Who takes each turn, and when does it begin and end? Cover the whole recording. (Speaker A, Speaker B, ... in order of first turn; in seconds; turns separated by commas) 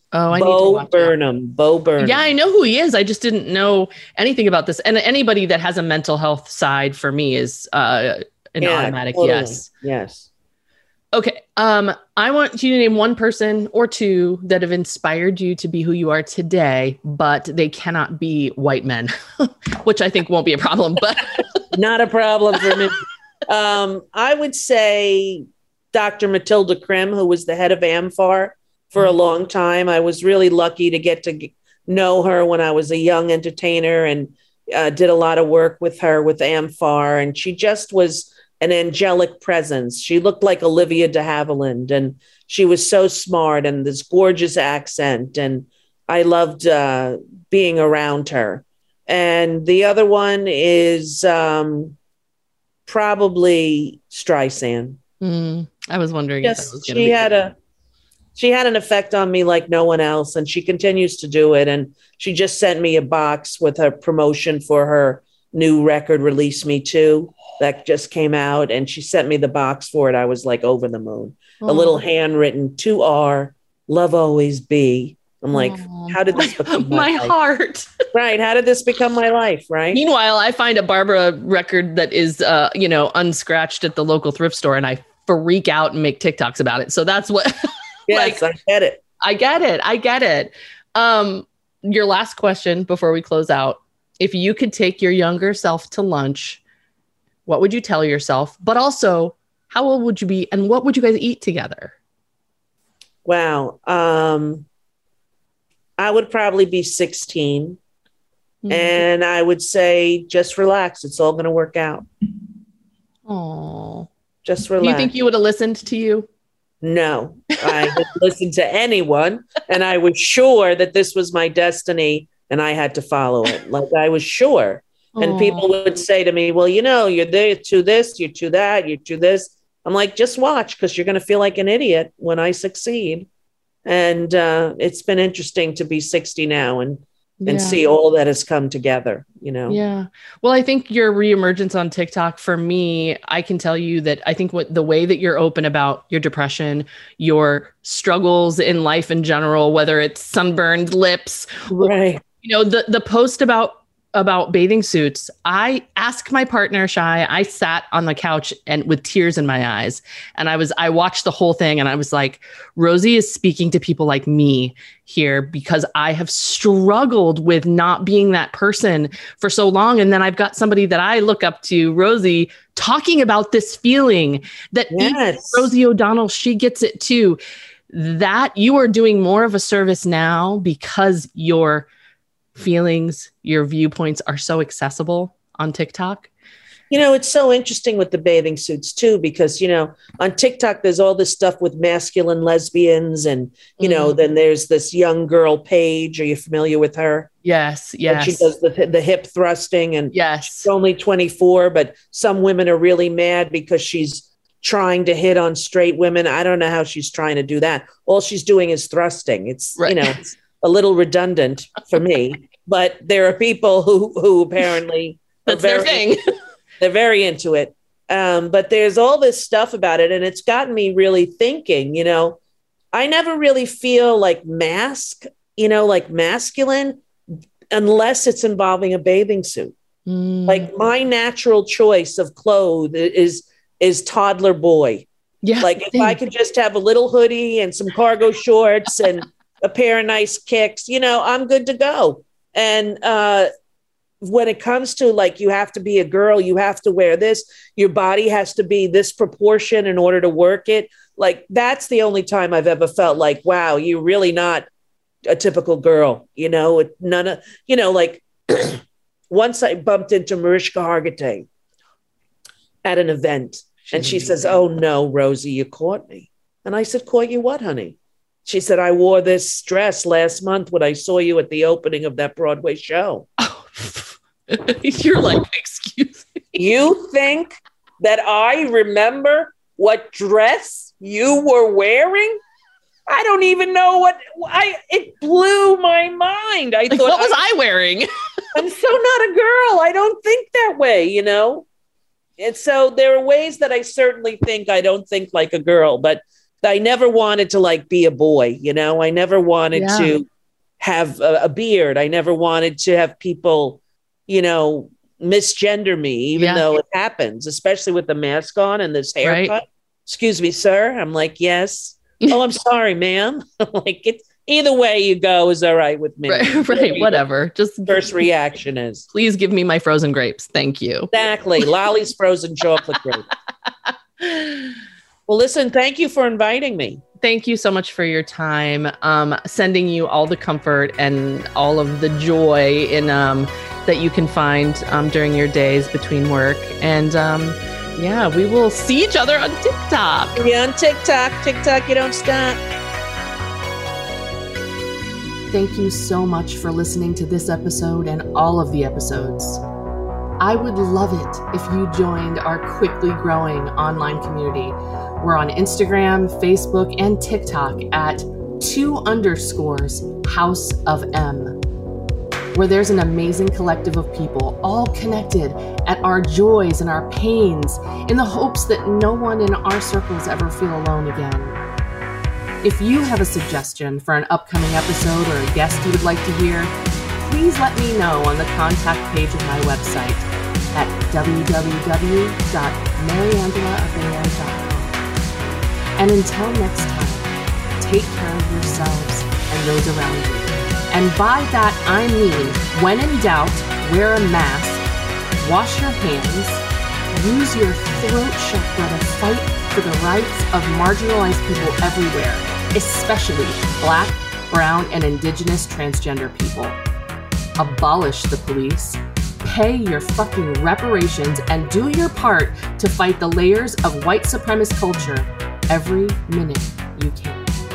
Speaker A: 0.1-1.1, Speaker B: 0.3-2.3, Speaker A: 2.0-9.7, Speaker B: 8.6-10.3, Speaker A: 11.1-21.4, Speaker B: 21.7-52.0, Speaker B: 52.9-55.0, Speaker A: 55.2-57.2, Speaker B: 56.4-57.6, Speaker B: 58.4-77.3, Speaker A: 71.6-72.0, Speaker A: 75.5-77.9, Speaker B: 78.1-80.0, Speaker A: 79.9-88.4, Speaker B: 88.1-89.0, Speaker A: 89.2-96.6, Speaker A: 97.5-102.0, Speaker B: 103.2-104.7, Speaker B: 106.0-107.8, Speaker A: 108.6-109.0, Speaker B: 108.7-112.1, Speaker A: 113.3-114.1, Speaker B: 114.5-115.1, Speaker A: 114.8-116.3, Speaker B: 116.8-133.3, Speaker A: 117.6-118.0, Speaker A: 125.2-125.7, Speaker B: 133.9-139.8, Speaker A: 137.4-137.8, Speaker A: 139.7-177.4, Speaker B: 151.7-152.2, Speaker B: 174.9-175.7, Speaker A: 177.9-181.9, Speaker A: 182.6-186.3, Speaker B: 186.9-197.3, Speaker A: 193.8-194.2, Speaker A: 197.4-198.5, Speaker B: 198.1-216.1, Speaker A: 200.1-200.7, Speaker A: 209.8-210.2, Speaker A: 215.5-216.2, Speaker B: 216.8-222.4, Speaker B: 222.9-227.0, Speaker B: 227.7-229.8, Speaker A: 230.1-230.7, Speaker B: 230.5-235.1, Speaker A: 235.4-236.2, Speaker B: 235.6-243.5, Speaker B: 244.2-254.7, Speaker B: 255.3-261.5, Speaker B: 262.9-273.3, Speaker A: 263.9-264.5, Speaker A: 273.4-276.7, Speaker B: 276.6-282.4, Speaker B: 283.1-287.4, Speaker A: 286.9-288.1, Speaker B: 288.6-291.7, Speaker B: 292.4-300.3, Speaker A: 299.7-300.1, Speaker B: 300.8-317.2, Speaker A: 306.4-306.7, Speaker A: 309.2-309.6, Speaker A: 316.3-318.1, Speaker B: 317.9-319.1, Speaker A: 319.1-321.1, Speaker B: 321.1-323.3, Speaker A: 324.2-324.8, Speaker B: 325.3-327.0, Speaker A: 327.2-340.4, Speaker B: 340.4-342.6, Speaker A: 345.5-349.6, Speaker A: 350.4-361.6, Speaker A: 362.5-371.6, Speaker A: 372.6-385.0, Speaker A: 386.0-394.8, Speaker A: 395.4-406.8, Speaker A: 407.6-417.5